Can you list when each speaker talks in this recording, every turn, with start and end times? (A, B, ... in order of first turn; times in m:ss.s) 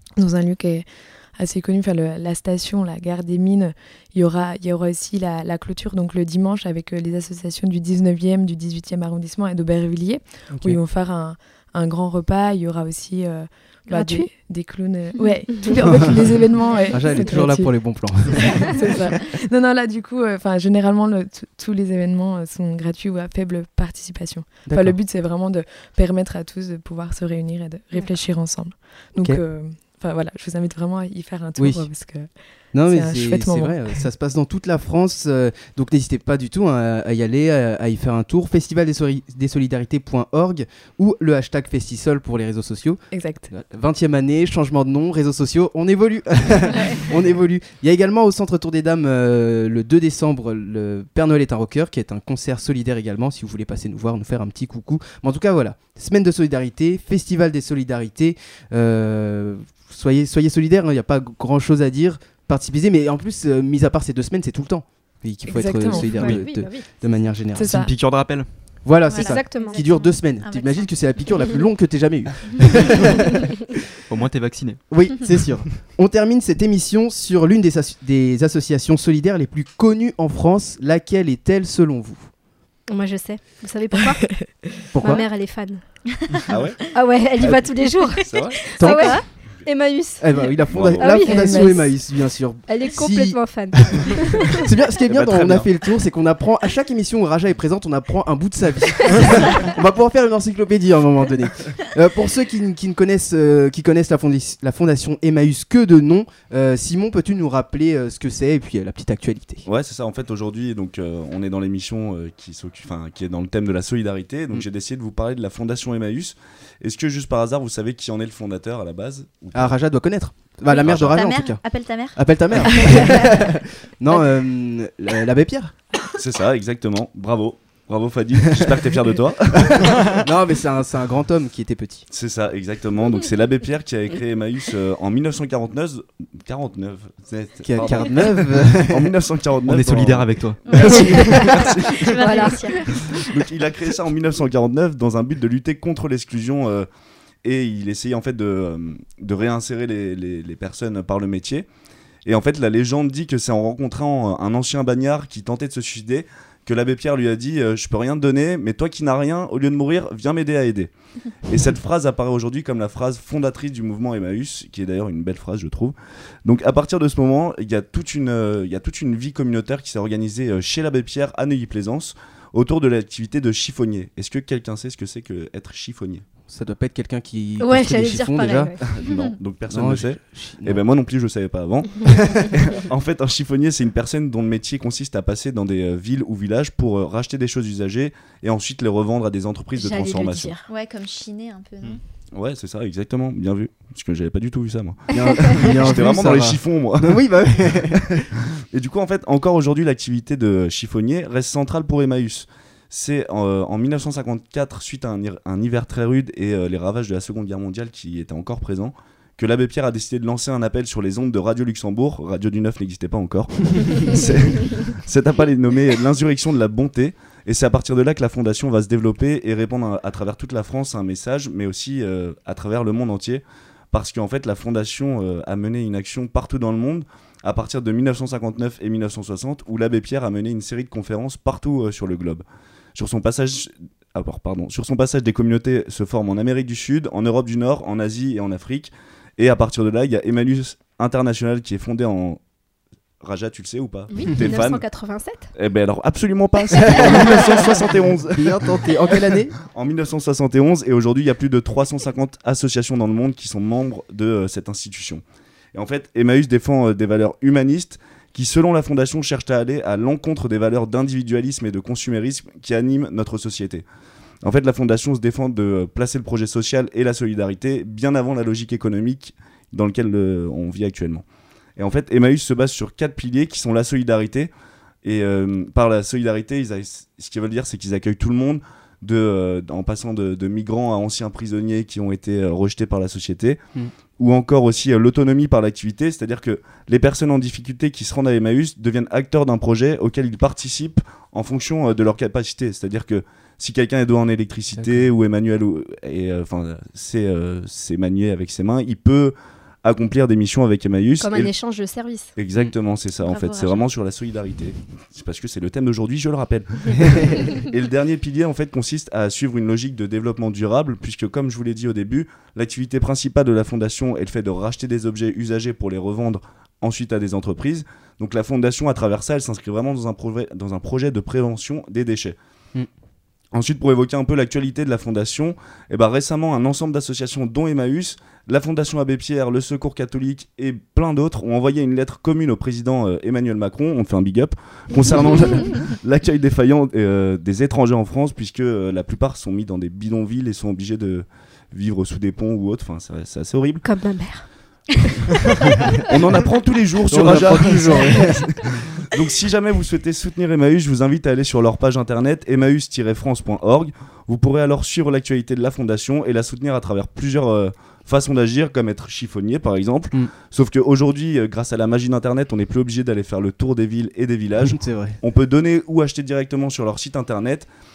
0:00.2-0:00.8 A
0:01.4-0:33.8 A
0:10.5-0:10.8 B
0:13.9-0:14.3 C
0:15.5-0:16.0 C
0:16.9-0:18.7 B
0:24.6-0:25.0 B
0:31.6-0:31.9 B
0:32.7-1:07.7 B
0:43.1-0:43.5 A
1:05.4-1:06.2 A
1:05.8-1:07.2 C
1:06.2-1:06.4 D
1:07.5-1:07.9 A
1:07.6-1:08.5 D
1:08.8-1:13.2 B
1:09.1-1:11.1 E
1:09.1-1:10.2 C
1:14.1-1:15.4 D
1:14.9-1:22.3 B
1:22.9-1:32.0 C
1:24.9-1:25.2 B
1:26.5-1:26.8 F
1:28.2-1:28.6 F
1:28.7-1:29.3 B
1:28.8-1:29.2 E
1:30.2-1:49.6 B
1:30.7-1:31.2 F
1:31.2-1:31.7 A
1:32.6-1:34.7 C
1:35.1-1:35.7 F
1:49.6-1:59.8 F
1:59.5-2:05.7 B
2:00.7-2:03.5 E
2:00.8-2:01.2 F
2:06.2-2:10.2 F
2:09.5-2:12.0 B
2:12.1-2:21.9 F
2:17.6-2:19.1 B
2:19.7-2:21.0 D
2:20.7-2:23.3 E
2:20.8-2:21.5 C
2:22.2-2:22.8 C
2:23.2-2:26.9 F
2:27.4-2:31.6 F
2:32.2-2:56.2 F
2:56.5-2:58.7 B
2:57.6-2:59.0 C
2:58.8-3:10.5 F
2:59.7-3:00.8 B
3:09.8-3:10.7 C
3:10.7-3:12.0 E
3:12.3-3:17.7 F
3:15.1-3:18.2 B
3:15.1-3:15.6 C
3:18.7-4:02.4 F
4:03.2-4:04.9 F
4:04.1-4:05.5 C
4:05.5-4:15.2 F
4:06.9-4:09.5 B
4:15.7-4:23.8 F
4:24.4-4:31.2 F
4:31.8-4:34.5 F
4:35.0-4:43.6 F
4:44.2-5:01.5 F
4:54.8-4:55.1 B
5:01.2-5:02.3 C
5:02.4-5:22.4 F
5:03.2-5:03.8 E
5:23.5-5:43.8 F
5:35.3-5:35.7 C
5:43.8-5:46.0 C
5:46.0-5:48.5 F
5:47.1-5:48.5 B
5:49.1-6:07.7 F
6:04.6-6:05.2 B